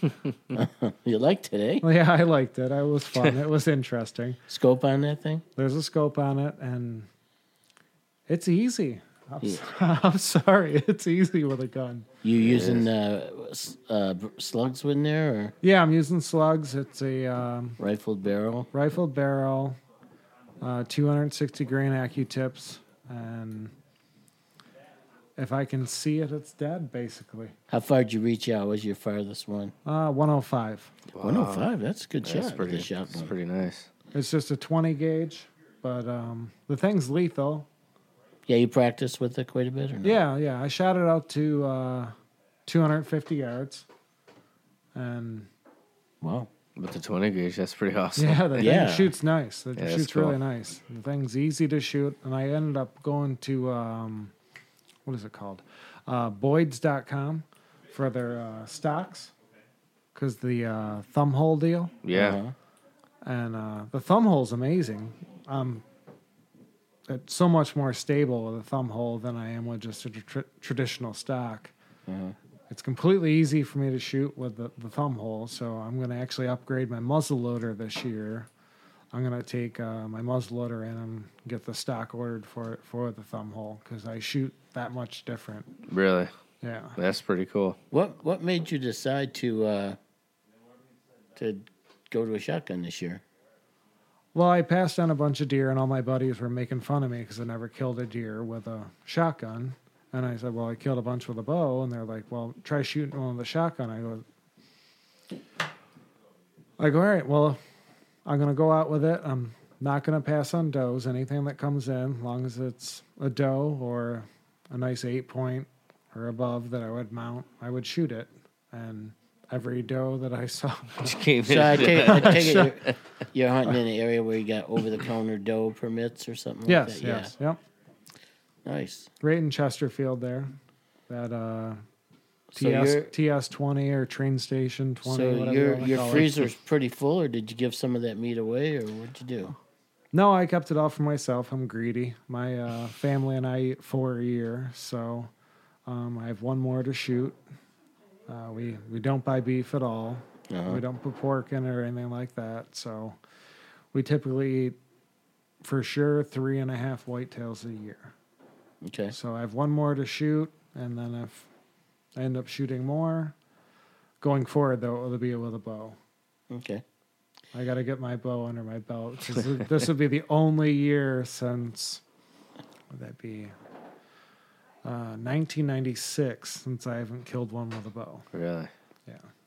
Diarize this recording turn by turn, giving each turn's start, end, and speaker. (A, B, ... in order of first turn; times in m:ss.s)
0:00.5-0:01.8 A
0:01.8-0:04.4 B
0:04.5-0:05.4 A
0:05.6-0:07.1 B
0:08.3-0:12.1 B
0:12.2-0:15.5 A
0:12.4-0:12.9 C
0:15.6-0:17.8 B
0:17.8-0:18.7 A
0:18.7-0:19.8 B
0:20.6-0:23.7 B
0:25.4-0:27.5 B
0:27.7-0:29.8 A
0:29.8-0:30.9 B
0:31.1-0:31.7 C
0:31.2-0:33.3 A
0:32.2-0:33.9 C
0:34.1-0:37.7 B
0:38.5-0:40.2 A
0:40.0-0:42.1 B
0:42.7-0:43.9 B
0:45.0-0:45.5 B
0:46.2-0:46.5 A
0:46.8-0:48.7 C
0:48.2-0:54.3 B
0:48.6-0:49.2 A
0:49.8-0:50.4 C
0:55.1-0:59.3 B
1:00.2-1:02.0 B
1:02.0-1:02.4 C
1:02.1-1:02.6 A
1:03.2-1:05.8 B
1:07.1-1:11.7 B
1:12.1-1:12.4 A
1:12.7-1:18.5 B
1:19.1-1:25.8 B
1:25.9-1:26.3 C
1:26.6-1:27.0 B
1:27.0-1:27.8 C
1:27.9-1:30.0 A
1:31.4-1:33.2 A
1:34.4-1:44.2 B
1:46.8-1:47.6 B
1:48.3-2:01.2 B
2:01.0-2:02.9 C
2:01.4-2:07.3 A
2:01.8-2:02.7 B
2:06.7-2:07.6 B
2:08.6-2:09.1 A
2:09.2-2:10.6 B
2:11.1-2:11.8 B
2:12.5-2:13.1 A
2:12.6-2:16.5 B
2:15.0-2:19.6 A
2:20.1-2:25.3 B
2:25.9-2:27.4 B
2:28.3-2:33.2 B
2:30.5-2:30.8 A
2:33.9-2:34.8 B
2:35.6-2:38.1 B
2:38.8-2:39.2 A
2:39.1-2:41.5 B
2:42.2-2:43.3 B
2:44.2-2:46.0 B
2:46.5-2:46.8 A
2:47.5-2:52.0 B
2:52.9-2:53.5 B
2:54.8-2:58.3 B
2:58.3-2:58.7 C